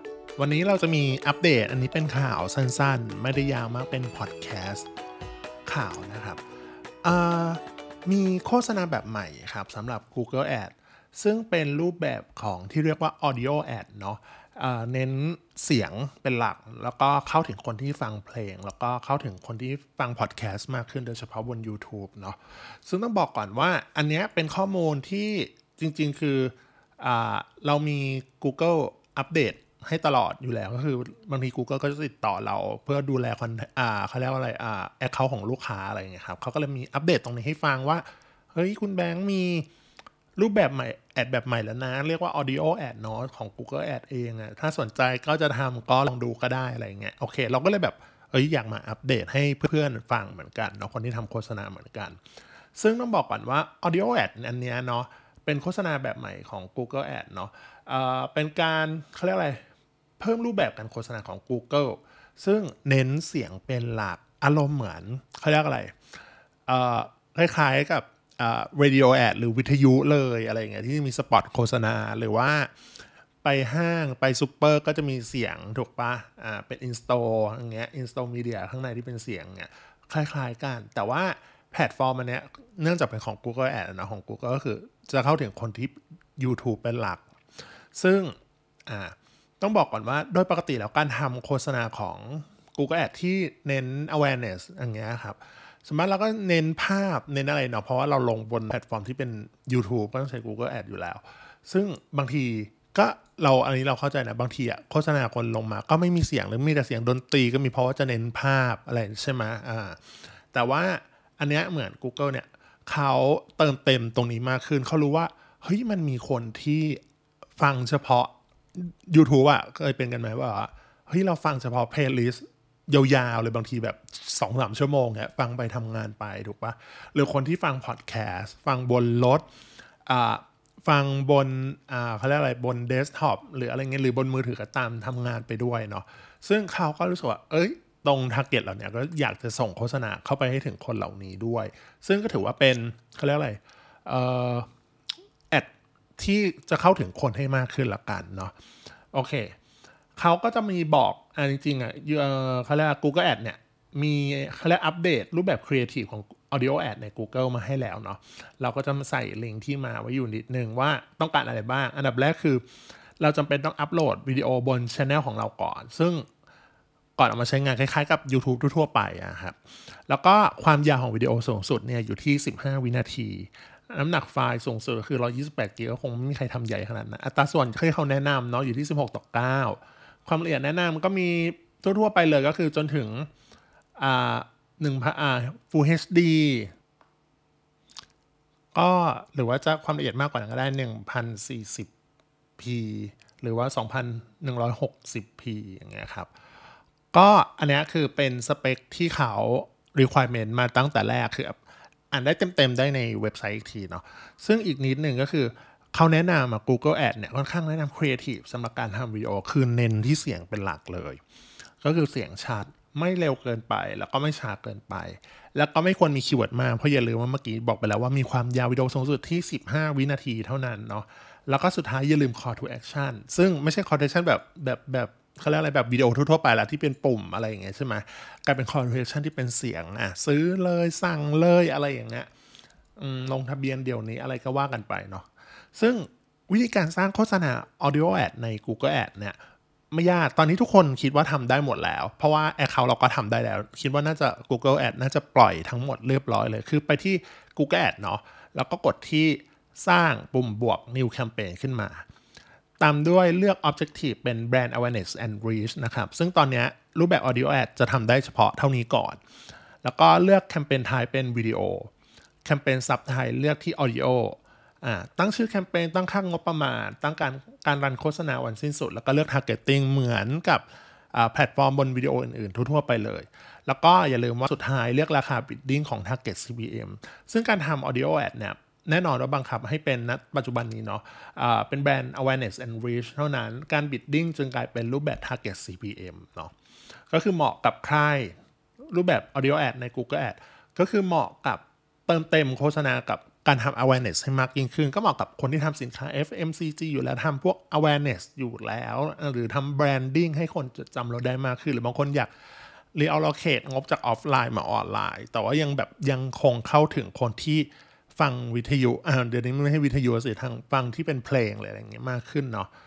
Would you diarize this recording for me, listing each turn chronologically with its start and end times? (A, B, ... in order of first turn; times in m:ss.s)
0:00.4-0:04.9 A
0:05.7-0:06.4 A
0:07.0-0:39.7 A
0:40.4-0:52.2 A
0:52.8-0:59.6 A
1:00.2-1:06.0 A
1:06.7-1:12.7 A
1:13.4-1:27.2 A
1:28.0-1:28.3 A
1:28.9-1:57.0 A
1:57.6-2:09.4 A
2:10.1-2:24.7 A
2:25.5-2:28.5 A
2:29.1-2:29.5 A
2:30.2-2:42.6 A
2:43.2-2:46.3 A
2:47.2-3:03.3 A
3:04.0-3:06.7 A
3:08.7-3:11.9 A
3:12.6-3:16.3 A
3:17.1-3:21.6 A
3:22.1-3:31.2 A
3:31.8-3:52.3 A
3:53.0-3:59.4 A
3:59.9-4:12.0 A
4:12.8-4:19.2 A
4:19.8-4:21.9 A
4:22.4-4:46.5 A
4:47.1-4:48.4 A
4:48.9-5:02.3 A
5:02.9-5:12.7 A